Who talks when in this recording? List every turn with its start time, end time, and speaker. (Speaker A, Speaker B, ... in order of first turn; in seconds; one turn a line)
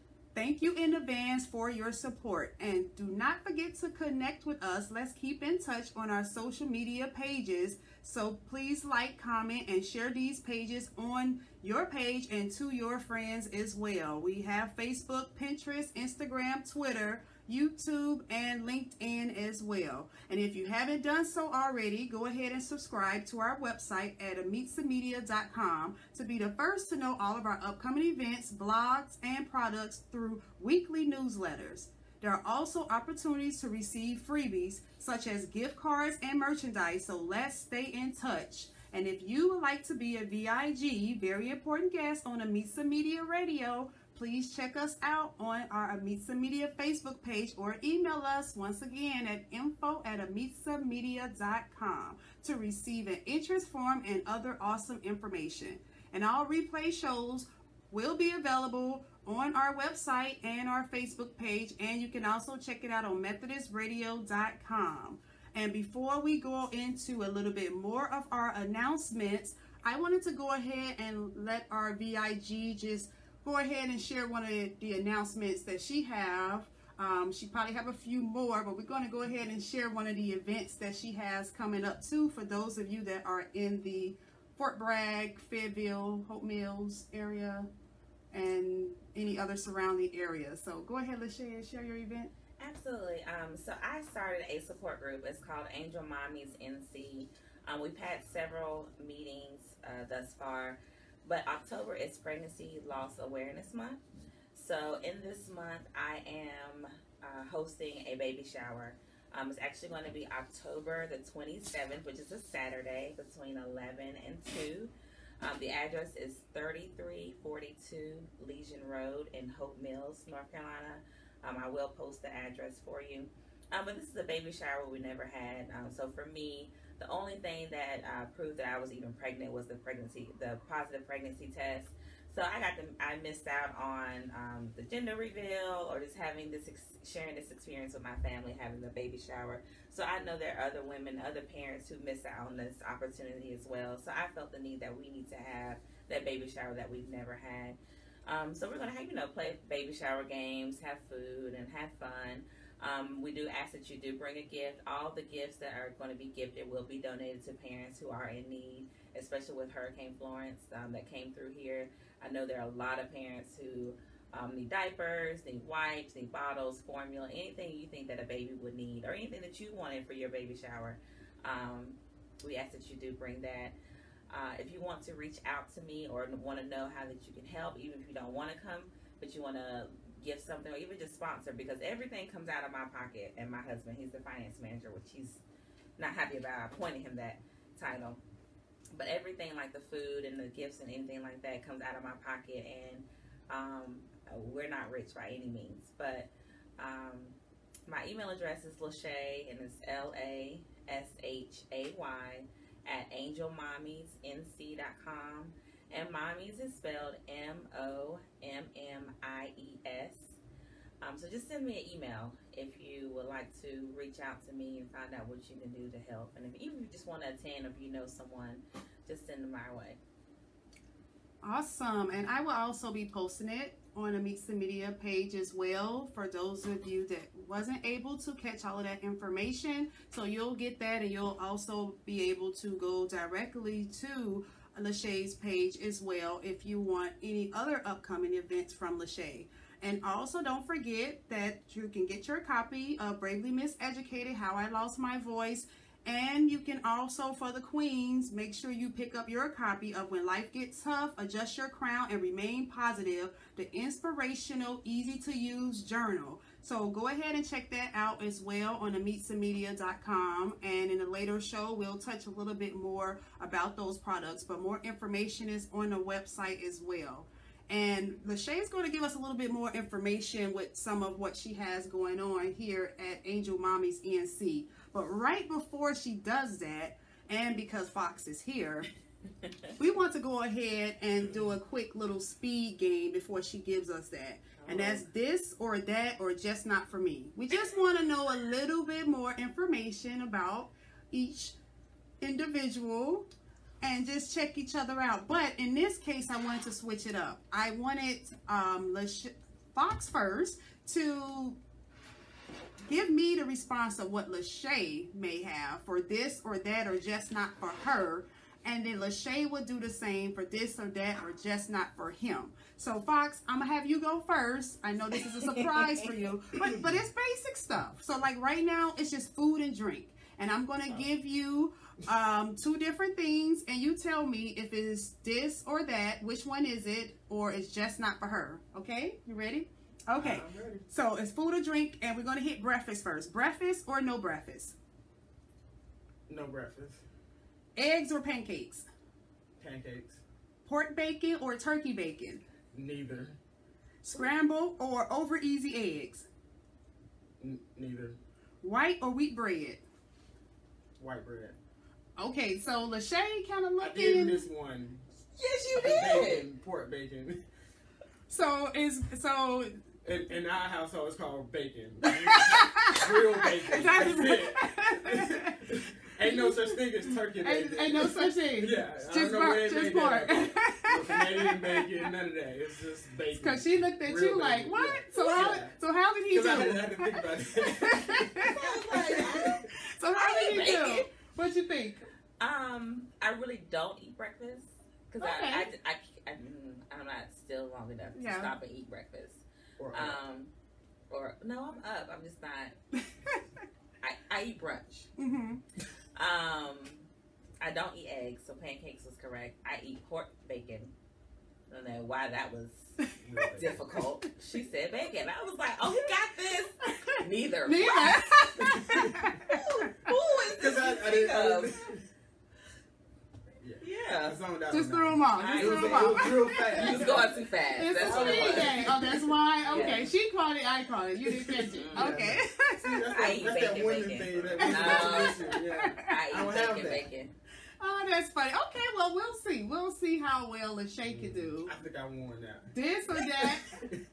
Speaker A: 0.3-87.7
Speaker A: 88.3-92.3
Speaker B: 92.6-104.0
Speaker B: 104.5-173.7
Speaker B: 174.3-185.4
Speaker B: 186.0-188.2
Speaker B: 188.9-210.4
Speaker B: 211.0-220.0
Speaker A: 221.4-278.9
Speaker B: 279.4-279.7
Speaker A: 279.8-291.6
Speaker B: 284.6-285.1
Speaker A: 292.2-293.3
Speaker A: 293.8-301.6
Speaker A: 302.9-334.8
Speaker B: 315.4-316.1
Speaker C: 330.1-330.9
Speaker C: 336.3-337.0
Speaker A: 337.8-338.9
Speaker C: 339.6-340.2
Speaker A: 340.6-342.4
Speaker C: 342.7-343.4
Speaker A: 344.0-346.3
Speaker C: 347.4-348.2
Speaker A: 348.6-349.8
Speaker C: 351.0-351.6
Speaker A: 352.2-354.4
Speaker C: 353.8-355.1
Speaker B: 355.4-356.5
Speaker C: 355.7-357.4
Speaker A: 358.3-359.8
Speaker C: 360.0-375.7
Speaker A: 362.1-365.6
Speaker A: 366.2-372.1
Speaker A: 373.3-382.1
Speaker B: 375.2-375.6
Speaker C: 376.3-379.6
Speaker B: 378.4-381.1
Speaker B: 382.4-390.5
Speaker A: 385.2-385.7
Speaker A: 388.1-388.5
Speaker C: 389.8-390.2
Speaker B: 391.1-392.8
Speaker B: 394.0-395.1
Speaker A: 395.2-395.6
Speaker B: 396.1-397.1
Speaker B: 397.6-400.9
Speaker B: 401.7-402.9
Speaker A: 403.1-403.5
Speaker C: 403.2-403.9
Speaker B: 403.5-408.8
Speaker A: 406.8-410.1
Speaker C: 408.6-409.4
Speaker B: 409.4-411.8
Speaker C: 410.5-412.0
Speaker C: 413.6-420.0
Speaker B: 413.8-414.4
Speaker A: 414.7-423.4
Speaker B: 415.4-418.9
Speaker B: 419.7-420.1
Speaker C: 421.2-427.1
Speaker B: 421.7-422.2
Speaker B: 423.1-425.5
Speaker A: 424.6-426.1
Speaker B: 426.0-427.3
Speaker A: 427.8-431.7
Speaker C: 431.1-434.0
Speaker A: 432.7-433.9